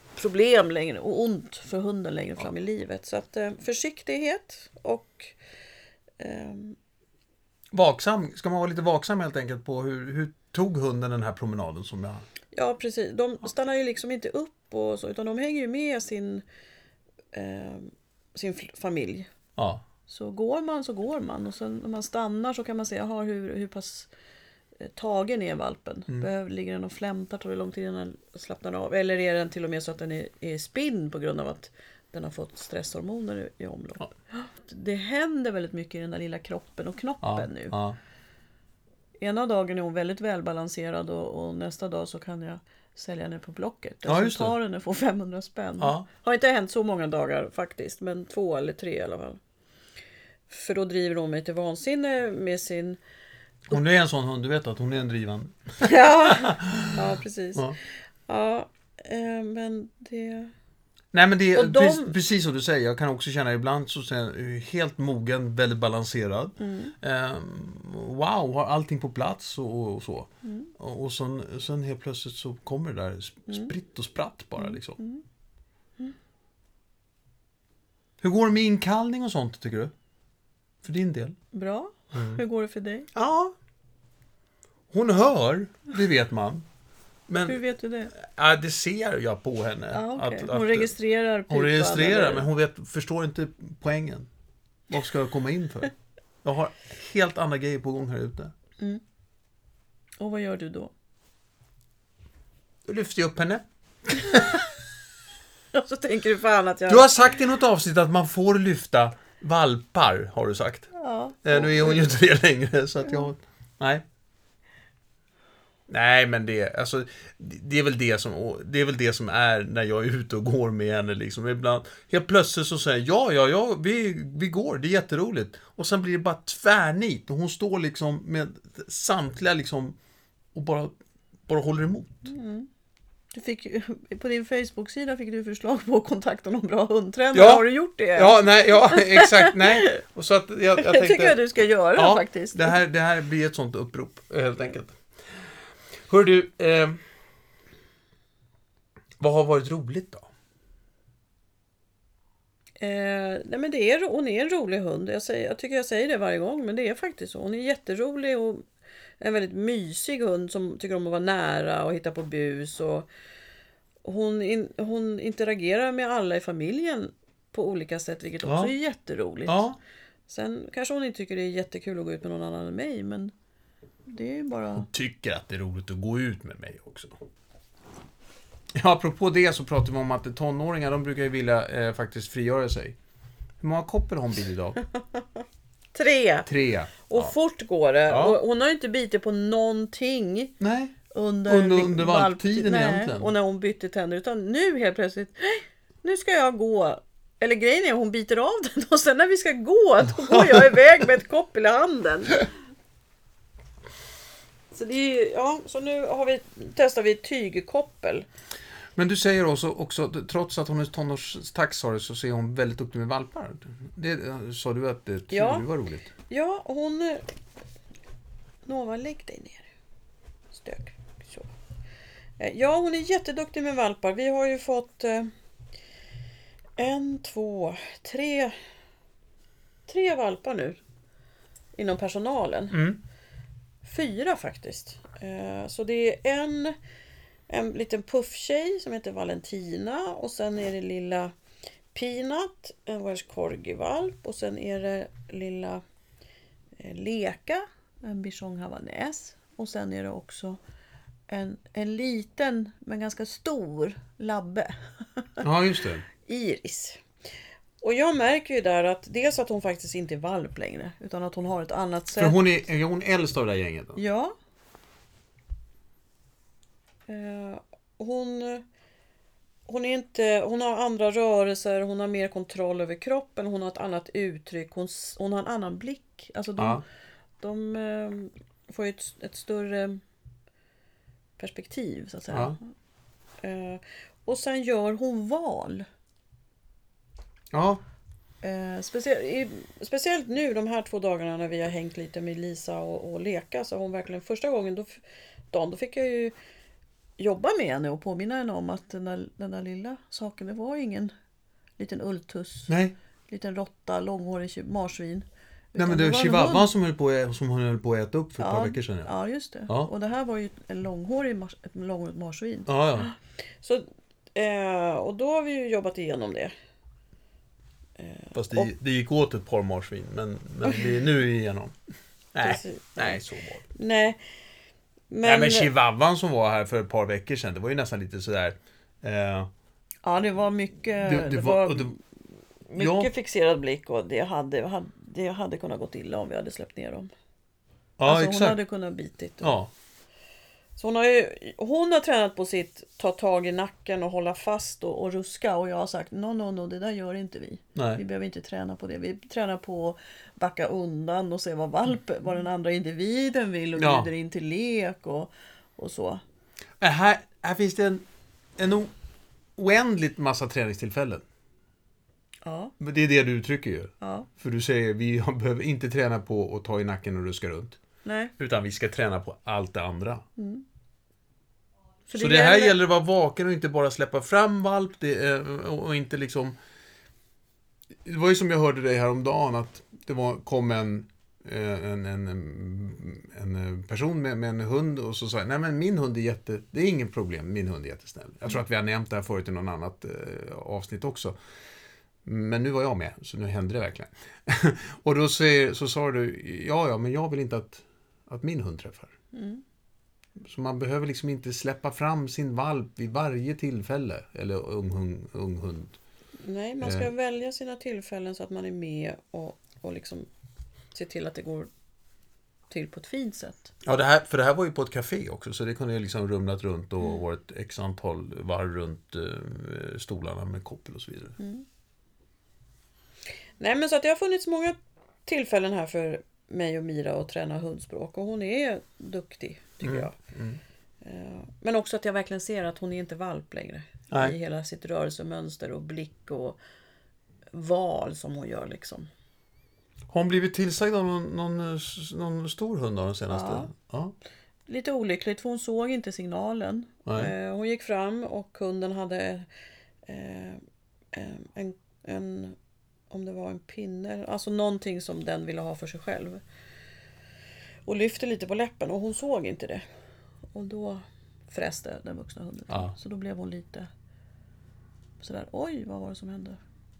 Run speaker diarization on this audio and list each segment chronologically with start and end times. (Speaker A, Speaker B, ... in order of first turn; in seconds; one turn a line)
Speaker A: 0.1-5.3
Speaker A: 6.2-6.8
Speaker B: 7.7-12.2
Speaker A: 12.5-16.4
Speaker A: 17.3-19.3
Speaker B: 19.6-19.8
Speaker A: 20.1-24.1
Speaker A: 24.8-37.8
Speaker B: 37.2-38.0
Speaker A: 39.2-49.4
Speaker B: 44.1-44.5
Speaker B: 45.8-46.0
Speaker A: 50.5-53.0
Speaker B: 53.7-57.0
Speaker A: 55.8-57.8
Speaker A: 58.3-60.5
Speaker B: 61.1-75.0
Speaker A: 61.5-62.1
Speaker A: 66.6-66.9
Speaker A: 70.4-70.7
Speaker A: 74.6-75.2
Speaker B: 78.2-79.9
Speaker B: 80.8-81.3
Speaker A: 81.5-83.1
Speaker B: 82.1-82.4
Speaker B: 83.1-83.5
Speaker B: 84.9-86.7
Speaker B: 87.3-87.6
Speaker A: 87.4-88.1
Speaker B: 88.1-90.9
Speaker A: 89.9-92.5
Speaker B: 91.5-94.3
Speaker B: 94.9-95.9
Speaker B: 96.4-98.5
Speaker A: 100.2-100.9
Speaker B: 102.8-104.6
Speaker A: 105.7-107.1
Speaker B: 106.9-110.9
Speaker A: 110.9-112.0
Speaker B: 111.4-114.0
Speaker B: 115.9-130.0
Speaker B: 130.5-131.0
Speaker B: 131.5-132.3
Speaker A: 132.2-132.7
Speaker A: 133.3-140.0
Speaker B: 137.3-141.4
Speaker A: 140.8-142.8
Speaker B: 141.9-144.9
Speaker B: 146.1-147.0
Speaker B: 149.2-150.3
Speaker A: 152.8-158.6
Speaker A: 159.2-163.1
Speaker A: 164.0-169.7
Speaker B: 168.4-168.7
Speaker B: 169.4-169.8
Speaker A: 170.3-173.3
Speaker A: 174.1-174.9
Speaker B: 174.8-177.2
Speaker B: 178.7-182.9
Speaker B: 183.6-184.8
Speaker A: 185.9-186.5
Speaker B: 186.4-187.3
Speaker A: 187.1-190.5
Speaker B: 188.1-188.4
Speaker B: 190.6-190.9
Speaker A: 191.1-202.5
Speaker B: 191.5-193.3
Speaker B: 200.3-200.7
Speaker A: 204.7-208.2
Speaker B: 208.9-216.1
Speaker A: 215.3-215.7
Speaker A: 216.3-217.2
Speaker A: 218.7-219.7
Speaker A: 220.5-221.5
Speaker A: 222.4-225.3
Speaker A: 226.8-228.5
Speaker A: 229.9-230.8
Speaker A: 231.8-232.8
Speaker B: 232.7-233.0
Speaker A: 233.8-236.7
Speaker A: 237.5-241.3
Speaker A: 241.9-245.8
Speaker A: 246.8-250.6
Speaker A: 251.3-255.4
Speaker B: 255.4-256.1
Speaker A: 256.2-257.0
Speaker A: 257.8-262.4
Speaker B: 262.2-264.0
Speaker A: 263.9-264.3
Speaker A: 267.1-268.6
Speaker A: 269.7-276.8
Speaker B: 276.6-276.8
Speaker A: 277.4-280.0
Speaker A: 281.4-282.7
Speaker B: 282.3-282.6
Speaker A: 283.4-285.8
Speaker B: 287.5-287.8
Speaker A: 288.4-295.0
Speaker A: 295.5-296.3
Speaker A: 297.2-301.1
Speaker A: 301.8-302.7
Speaker B: 302.7-302.9
Speaker A: 303.3-306.7
Speaker B: 305.8-309.1
Speaker A: 308.4-316.5
Speaker B: 312.7-313.1
Speaker A: 318.0-318.7
Speaker B: 318.3-321.7
Speaker A: 320.6-320.9
Speaker B: 322.3-323.6
Speaker A: 322.4-323.2
Speaker A: 323.7-324.2
Speaker A: 325.1-325.7
Speaker B: 325.2-329.5
Speaker A: 330.0-332.0
Speaker B: 331.0-331.9
Speaker A: 332.7-337.1
Speaker B: 332.8-333.1
Speaker B: 338.0-338.6
Speaker A: 338.1-339.5
Speaker B: 339.4-339.7
Speaker A: 340.8-356.2
Speaker B: 347.7-348.0
Speaker B: 353.8-354.1
Speaker B: 356.8-358.1
Speaker B: 358.6-358.9
Speaker B: 359.6-361.2
Speaker A: 362.4-362.7
Speaker B: 362.8-367.8
Speaker A: 364.0-364.3
Speaker A: 368.0-368.3
Speaker B: 368.4-370.2
Speaker A: 370.4-370.6
Speaker A: 372.1-372.8
Speaker B: 372.1-376.5
Speaker B: 378.0-391.3
Speaker B: 392.2-399.1
Speaker A: 399.3-399.6
Speaker B: 400.4-406.0
Speaker A: 406.4-410.3
Speaker B: 406.8-407.1
Speaker A: 410.9-411.7
Speaker A: 412.7-413.7
Speaker B: 413.8-421.4
Speaker A: 421.4-421.6
Speaker A: 423.6-424.7
Speaker A: 425.2-430.1
Speaker B: 429.8-430.6
Speaker A: 431.0-436.6
Speaker A: 437.5-439.1
Speaker B: 440.1-444.1
Speaker A: 443.3-443.7
Speaker A: 444.7-449.4
Speaker B: 447.1-447.3
Speaker A: 450.1-450.6
Speaker A: 451.1-452.6
Speaker A: 453.1-456.4
Speaker A: 457.9-459.8
Speaker A: 460.5-463.9
Speaker A: 465.2-466.6